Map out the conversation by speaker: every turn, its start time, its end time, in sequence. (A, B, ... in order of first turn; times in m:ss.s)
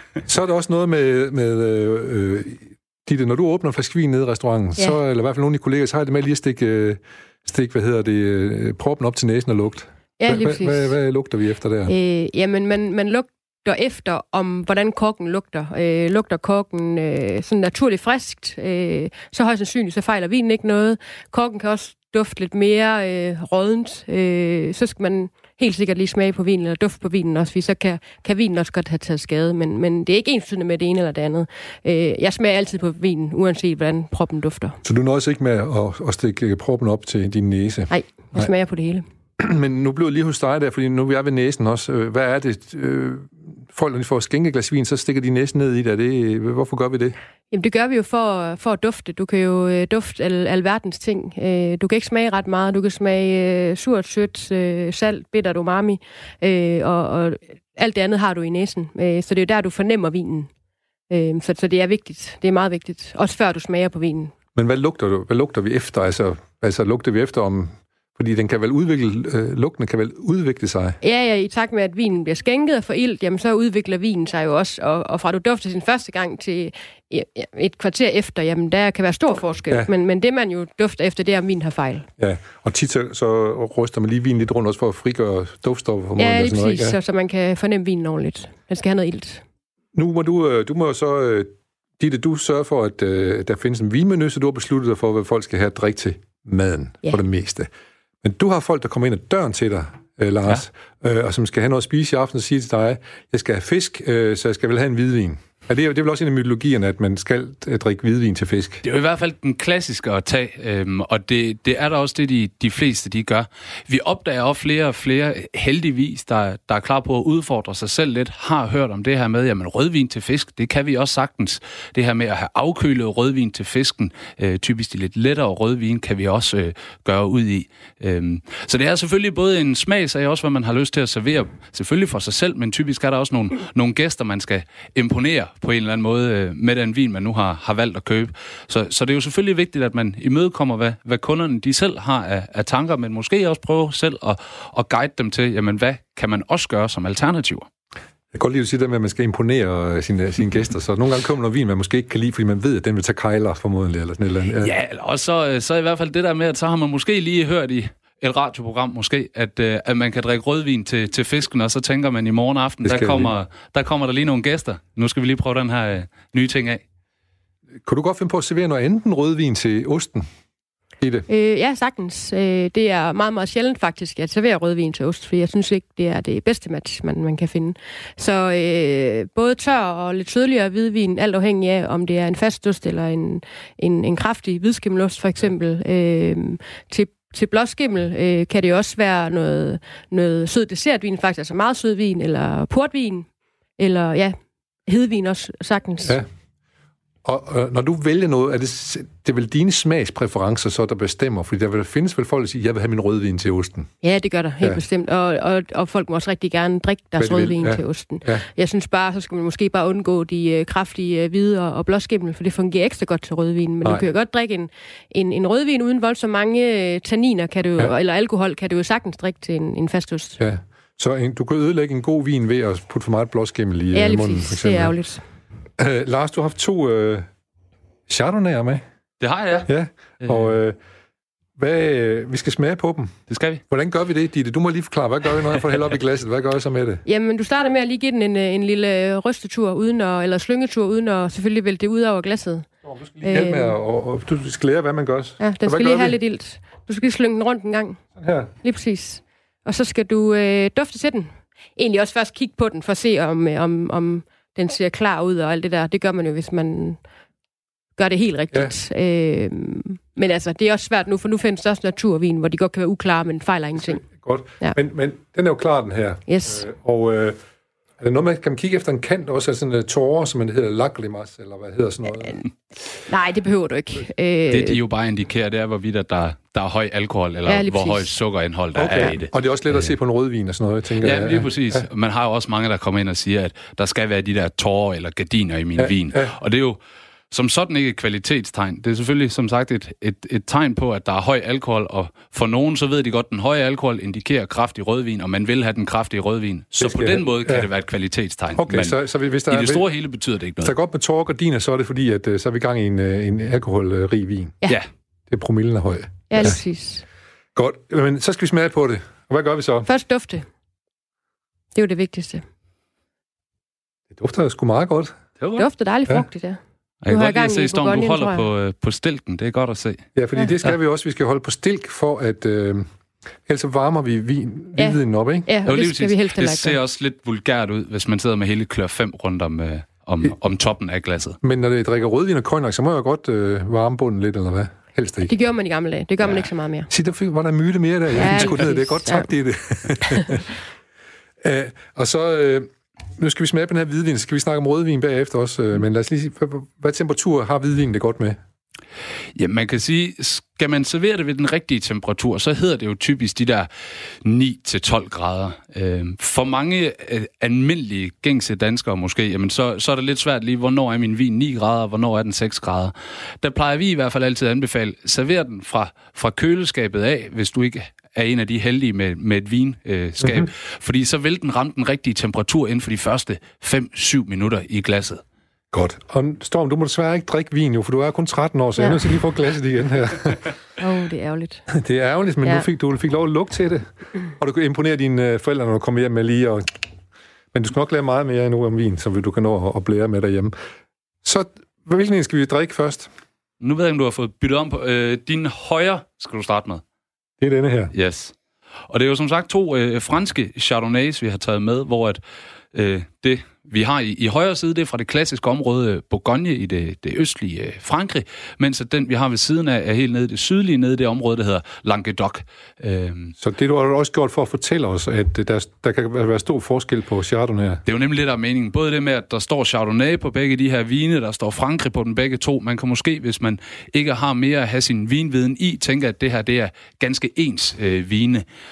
0:00.2-0:11.9 A
0:10.2-0:10.9 B
0:11.8-0:34.8 B
0:34.8-0:38.5 A
0:37.9-0:39.0 B
0:39.4-0:47.2 A
0:47.5-1:00.5 B
1:01.1-1:04.3 B
1:04.6-1:11.0 A
1:11.0-1:22.1 B
1:22.2-1:27.0 A
1:26.2-1:29.4 B
1:29.9-1:37.7 A
1:38.2-1:48.8 A
1:48.8-2:27.7 C
2:28.3-2:34.7 A
2:34.6-2:46.8 C
2:42.8-2:43.3 A
2:47.8-2:50.3 A
2:51.0-2:51.2 A
2:51.3-3:16.2 B
3:17.2-3:23.9 A
3:24.0-3:40.4 B
3:27.2-3:28.4 A
3:40.4-3:44.9 A
3:43.9-3:45.2 B
3:45.8-3:47.3 A
3:48.1-3:48.8 A
3:49.2-3:49.7 C
3:49.6-3:50.8 A
3:50.2-3:50.5 C
3:51.6-3:53.1 A
3:53.3-3:53.6 C
3:53.7-3:57.0 A
3:57.0-4:02.6 B
4:02.8-4:06.2 A
4:03.2-4:03.7 B
4:05.4-4:08.0 B
4:08.2-4:08.5 A
4:08.6-4:17.0 B
4:18.0-4:24.0 B
4:24.0-4:27.4 A
4:26.3-4:26.6 B
4:28.0-4:32.4 A
4:33.0-4:34.8 B
4:34.5-4:39.3 C
4:37.4-4:38.0 B
4:38.8-4:41.8 A
4:41.0-4:46.8 C
4:45.8-4:46.3 A
4:47.3-5:00.7 C
4:56.8-4:57.7 A
4:58.5-4:59.8 A
5:00.6-5:04.6 A
5:05.3-5:06.6 A
5:06.3-5:07.0 B
5:07.5-5:09.9 A
5:09.8-5:10.5 B
5:11.7-5:12.4 B
5:14.1-5:15.2 A
5:15.4-5:15.6 C
5:15.6-5:18.5 B
5:17.0-5:20.0 C
5:20.1-5:22.8 A
5:23.5-5:25.5 A
5:24.8-5:26.8 B
5:25.6-5:31.4 C
5:31.4-5:35.3 A
5:35.2-5:36.9 B
5:36.9-5:40.4 A
5:38.1-5:39.3 B
5:41.4-5:48.4 A
5:49.4-5:53.7 C
5:54.2-6:15.2 C
6:10.2-6:10.5 A
6:15.7-6:20.5 A
6:20.8-6:21.6 B
6:21.7-6:26.6 A
6:27.5-6:30.5 A
6:31.2-6:33.1 A
6:33.6-6:36.8 C
6:37.4-6:37.9 A
6:37.9-6:38.3 C
6:38.9-6:42.2 C
6:42.7-6:53.3 C
6:53.4-6:57.8 A
6:57.8-7:08.4 C